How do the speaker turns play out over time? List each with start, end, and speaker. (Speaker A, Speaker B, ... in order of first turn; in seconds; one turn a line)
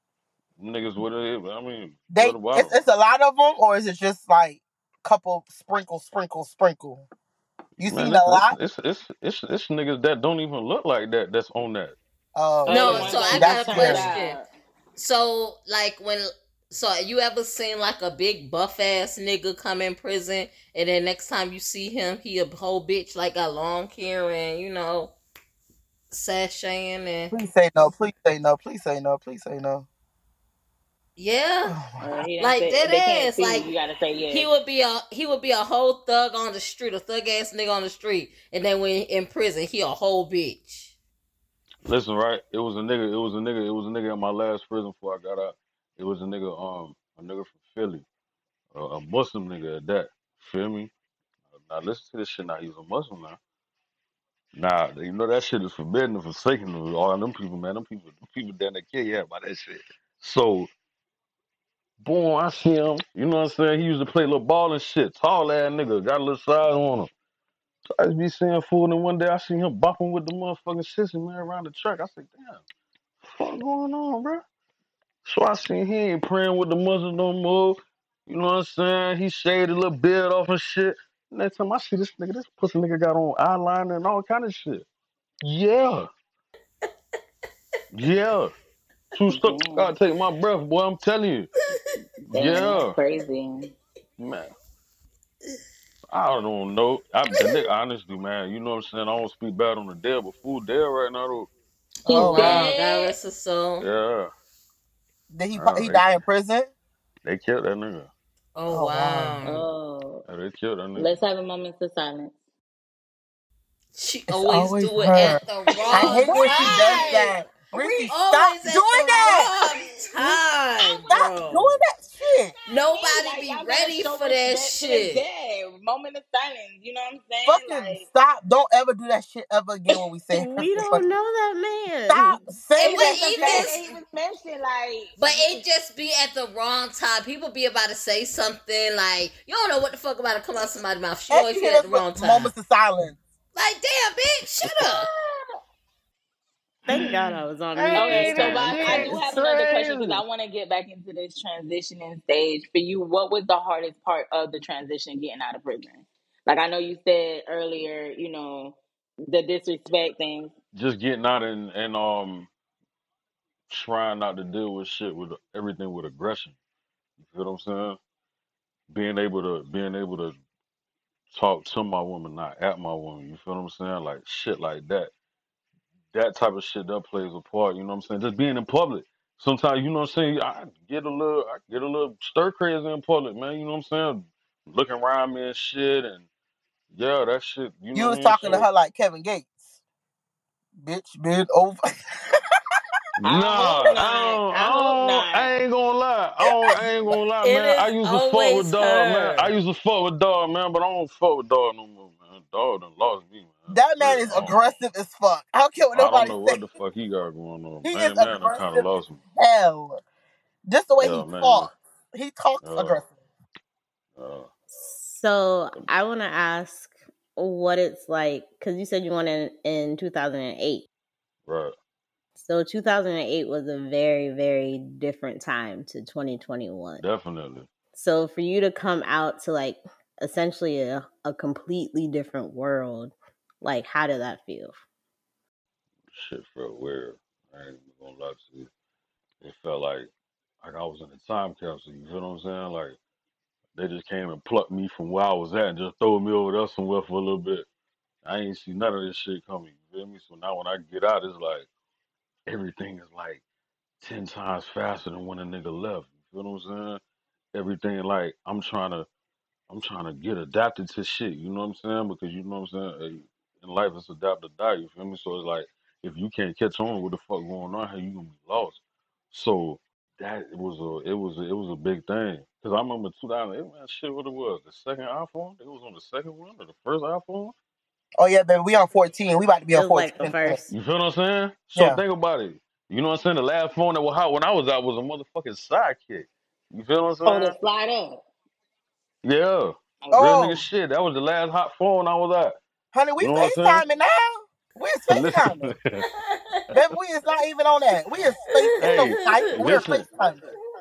Speaker A: 0.6-2.7
Speaker B: 2.1-7.0
Speaker B: 7.8-8.6
Speaker A: 7.8-12.0
Speaker B: 12.3-14.1
Speaker C: 12.7-14.5
Speaker D: 12.7-14.4
Speaker D: 15.0-25.1
Speaker D: 26.1-27.3
Speaker B: 27.3-29.9
Speaker D: 31.2-31.8
Speaker B: 31.7-32.0
Speaker C: 32.0-34.5
Speaker D: 32.4-33.7
Speaker D: 34.3-40.9
Speaker A: 41.8-48.0
Speaker A: 48.7-50.9
Speaker A: 51.5-53.4
Speaker A: 54.5-60.7
Speaker A: 62.0-67.1
Speaker A: 67.9-72.6
Speaker A: 73.2-74.4
Speaker A: 75.2-84.9
Speaker A: 85.4-86.1
Speaker A: 87.9-88.5
Speaker A: 89.1-91.5
Speaker C: 89.3-89.9
Speaker C: 92.3-93.7
Speaker A: 92.3-93.0
Speaker A: 94.2-94.5
Speaker A: 96.1-101.5
Speaker B: 102.0-102.7
Speaker C: 102.1-103.1
Speaker D: 102.2-103.9
Speaker A: 103.8-104.3
Speaker B: 105.3-106.7
Speaker A: 105.5-106.1
Speaker A: 107.2-108.1
Speaker D: 108.5-109.7
Speaker B: 108.7-109.4
Speaker C: 109.5-110.2
Speaker A: 110.3-111.1
Speaker C: 111.0-112.4
Speaker D: 113.9-117.2
Speaker B: 114.3-119.6
Speaker C: 115.8-117.4
Speaker D: 118.1-121.8
Speaker B: 121.1-122.5
Speaker D: 122.7-125.2
Speaker C: 122.7-128.1
Speaker B: 127.5-131.1
Speaker E: 129.9-132.4
Speaker B: 132.1-133.8
Speaker D: 132.8-133.8
Speaker C: 132.8-135.6
Speaker D: 135.2-142.5
Speaker B: 141.3-143.2
Speaker D: 143.6-145.1
Speaker C: 145.0-145.6
Speaker E: 146.9-149.2
Speaker A: 146.9-150.2
Speaker C: 147.9-160.5
Speaker A: 160.7-162.5
Speaker A: 163.7-166.6
Speaker A: 167.2-168.0
Speaker A: 168.9-170.4
Speaker A: 171.3-175.1
Speaker A: 176.1-186.2
Speaker A: 186.9-188.7
Speaker B: 187.9-189.6
Speaker B: 190.8-192.4
Speaker A: 193.2-204.6
Speaker C: 193.2-195.5
Speaker D: 197.4-199.5
Speaker B: 203.7-206.6
Speaker A: 205.9-209.2
Speaker B: 207.8-210.0
Speaker B: 210.7-213.1
Speaker A: 211.0-211.7
Speaker A: 212.6-213.0
Speaker A: 214.2-214.5
Speaker E: 214.7-220.9
Speaker A: 221.5-221.7
Speaker E: 222.4-227.0
Speaker A: 227.0-227.7
Speaker E: 227.9-234.8
Speaker A: 236.1-238.7
Speaker A: 239.4-240.1
Speaker A: 240.6-243.0
Speaker A: 243.8-247.7
Speaker A: 248.2-251.7
Speaker A: 252.5-253.4
Speaker A: 254.0-257.0
Speaker A: 257.5-259.1
Speaker A: 259.7-268.8
Speaker A: 269.3-277.6
Speaker B: 278.2-280.6
Speaker E: 279.7-280.7
Speaker A: 280.7-287.6
Speaker B: 281.8-282.0
Speaker C: 287.3-288.2
Speaker A: 289.2-292.6
Speaker C: 290.0-290.5
Speaker B: 290.1-290.6
Speaker B: 292.9-295.7
Speaker A: 293.2-293.8
Speaker A: 295.1-296.0
Speaker D: 296.0-296.6
Speaker B: 296.7-300.5
Speaker D: 298.6-299.6
Speaker A: 298.8-300.1